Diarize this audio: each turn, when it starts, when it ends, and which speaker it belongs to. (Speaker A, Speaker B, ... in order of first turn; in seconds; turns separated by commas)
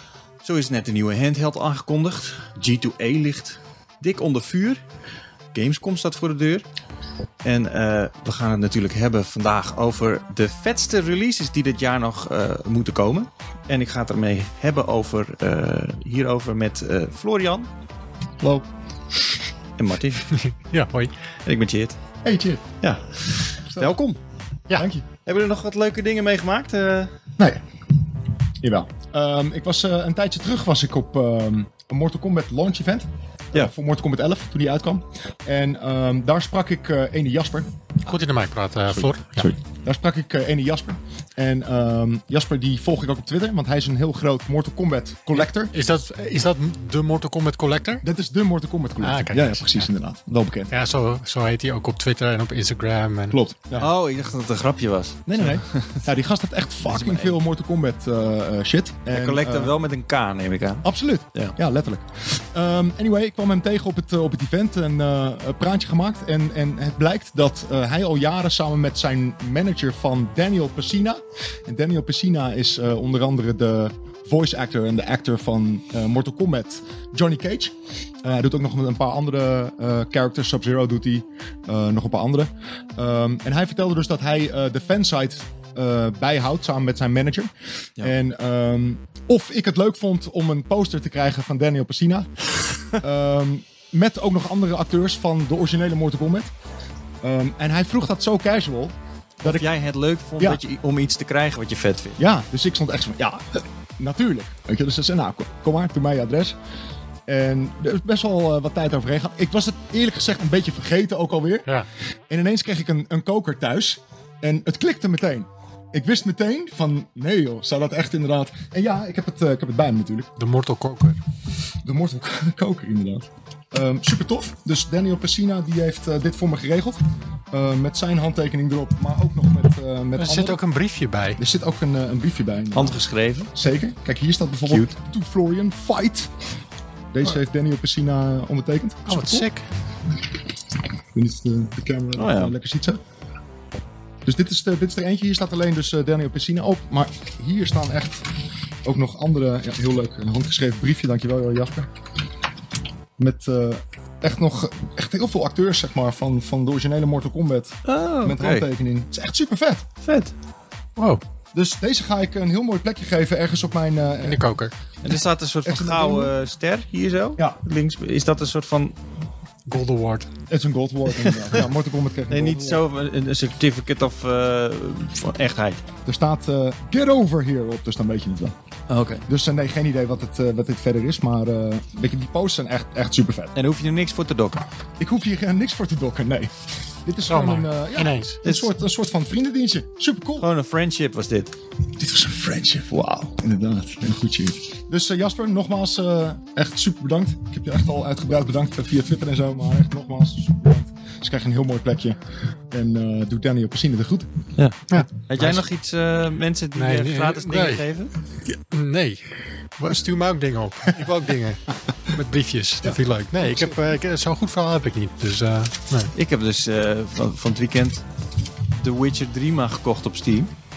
Speaker A: 0.4-4.8, Speaker A: 5.5-6.7, Speaker A: 7.4-17.7, Speaker A: 19.8-20.3, Speaker B: 20.3-21.1, Speaker A: 21.5-22.0, Speaker C: 22.2-22.6, Speaker A: 22.8-24.2, Speaker C: 24.7-25.1, Speaker A: 25.2-27.1, Speaker C: 27.4-27.6, Speaker C: 28.6-37.7, Speaker B: 38.1-39.5, Speaker C: 38.9-45.7, Speaker B: 45.7-48.0, Speaker C: 48.0-50.7, Speaker B: 49.0-49.9, Speaker B: 50.7-53.4, Speaker C: 53.3-53.9, Speaker A: 53.8-56.0, Speaker C: 55.3-59.7, Speaker A: 56.9-57.4, Speaker A: 59.1-61.6, Speaker C: 60.8-92.3, Speaker C: 92.9-96.5, Speaker C: 97.2-99.7, Speaker A: 99.4-102.2, Speaker C: 102.2-106.6, Speaker C: 107.3-111.7, Speaker C: 112.3-120.3, Speaker B: 120.4-121.2, Speaker C: 121.8-130.6, Speaker B: 130.2-131.4, Speaker C: 131.4-133.0, Speaker A: 132.7-133.5, Speaker C: 133.5-136.3, Speaker A: 134.7-134.9, Speaker C: 137.1-139.5, Speaker B: 139.1-139.6, Speaker C: 141.1-143.0, Speaker A: 142.2-142.6, Speaker C: 144.2-148.3, Speaker C: 148.8-151.9, Speaker C: 153.2-159.9, Speaker A: 157.8-158.7, Speaker A: 160.0-160.3, Speaker C: 161.5-164.5, Speaker B: 164.2-164.7, Speaker A: 165.0-169.0, Speaker C: 165.7-166.3, Speaker B: 169.7-170.3, Speaker C: 170.5-172.8, Speaker A: 171.2-171.6, Speaker A: 172.3-175.8, Speaker C: 176.1-178.6, Speaker A: 178.9-179.2, Speaker C: 179.3-183.5, Speaker A: 183.6-184.7, Speaker C: 185.0-190.5, Speaker B: 187.3-188.4, Speaker A: 190.4-191.5, Speaker C: 192.0-204.3, Speaker A: 204.6-208.1, Speaker B: 204.9-205.6, Speaker B: 206.8-207.8, Speaker B: 208.5-216.1, Speaker C: 212.8-213.8, Speaker A: 216.1-218.1, Speaker A: 218.7-220.5